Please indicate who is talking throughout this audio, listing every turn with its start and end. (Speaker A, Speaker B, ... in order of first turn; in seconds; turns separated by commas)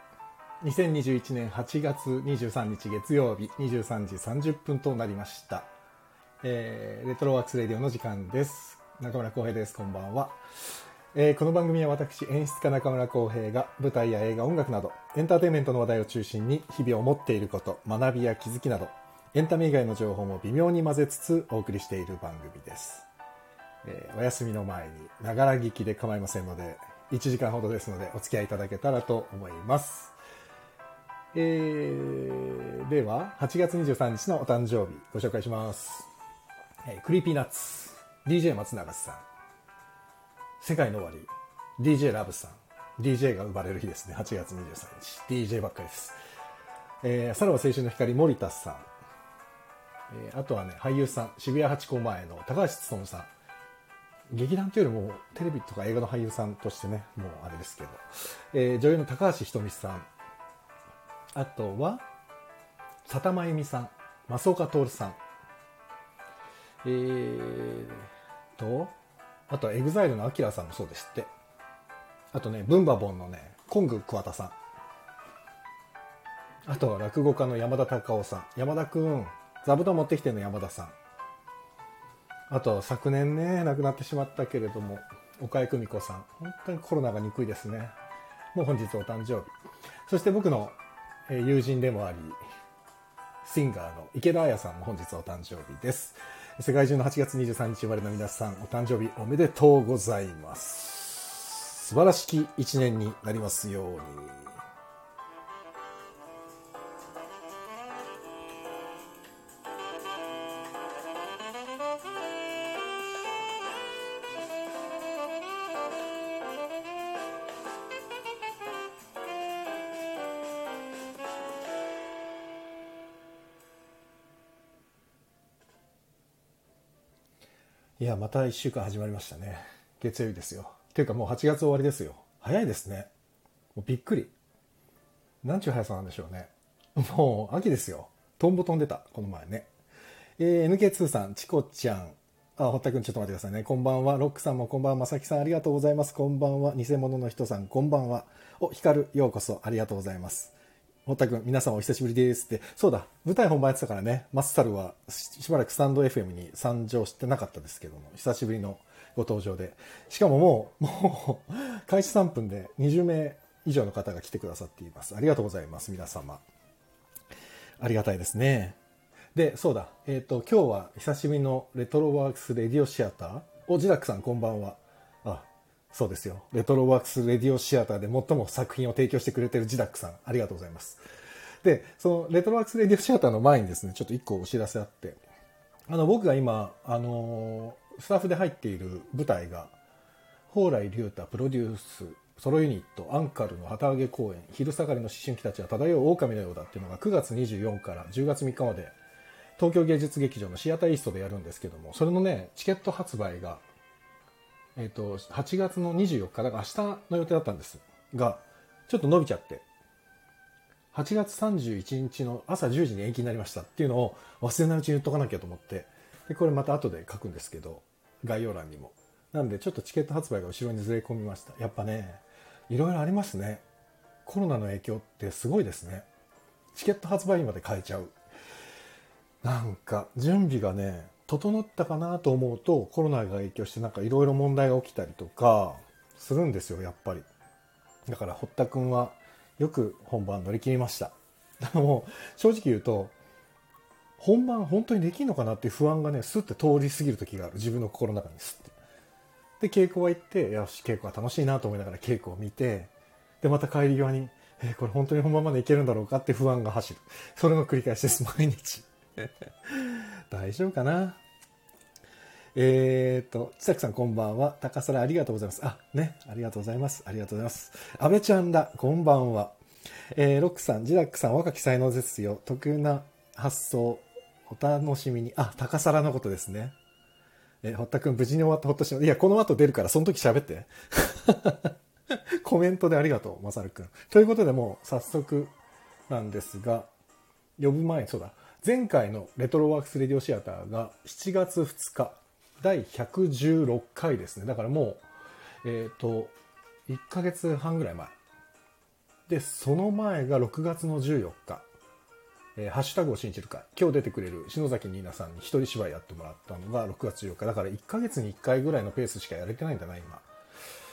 Speaker A: 0.6-5.7, Speaker A: 6.4-10.4, Speaker A: 11.1-23.1, Speaker A: 23.8-30.1, Speaker A: 31.3-36.1, Speaker A: 36.8-39.2, Speaker A: 40.6-46.2, Speaker A: 47.0-48.9, Speaker A: 50.1-53.3, Speaker A: 54.3-60.1, Speaker A: 61.3-62.0, Speaker A: 63.0-65.2, Speaker A: 66.8-68.9, Speaker A: 69.5-71.3, Speaker A: 72.3-74.5, Speaker A: 76.6-80.9, Speaker A: 82.5-87.9, Speaker A: 88.5-89.5, Speaker A: 90.1-92.4, Speaker A: 93.4-104.5, Speaker A: 128.0-133.1, Speaker A: 133.7-134.3, Speaker A: 135.4-139.7, Speaker A: 140.4-150.5, Speaker A: 151.1-166.4, Speaker A: 167.8-168.8, Speaker A: 169.3-181.0, Speaker A: 181.6-185.2, Speaker A: 185.9-189.7, Speaker A: 190.5-198.9, Speaker A: 199.6-203.6, Speaker A: 204.8-209.6, Speaker A: 210.9-223.6, Speaker A: 224.2-226.1, Speaker A: 226.7-228.1, Speaker A: 229.4-237.2, Speaker A: 238.1-243.1, Speaker A: 244.2-248.7, Speaker A: 249.6-261.2, Speaker A: 262.5-269.6, Speaker A: 270.1-276.7, Speaker A: 277.6-281.7, Speaker A: 282.4-285.5, Speaker A: 286.1-286.9, Speaker A: 287.6-295.0, Speaker A: 295.6-296.3, Speaker A: 296.9-298.1, Speaker A: 299.3-301.6, Speaker A: 302.6-310.2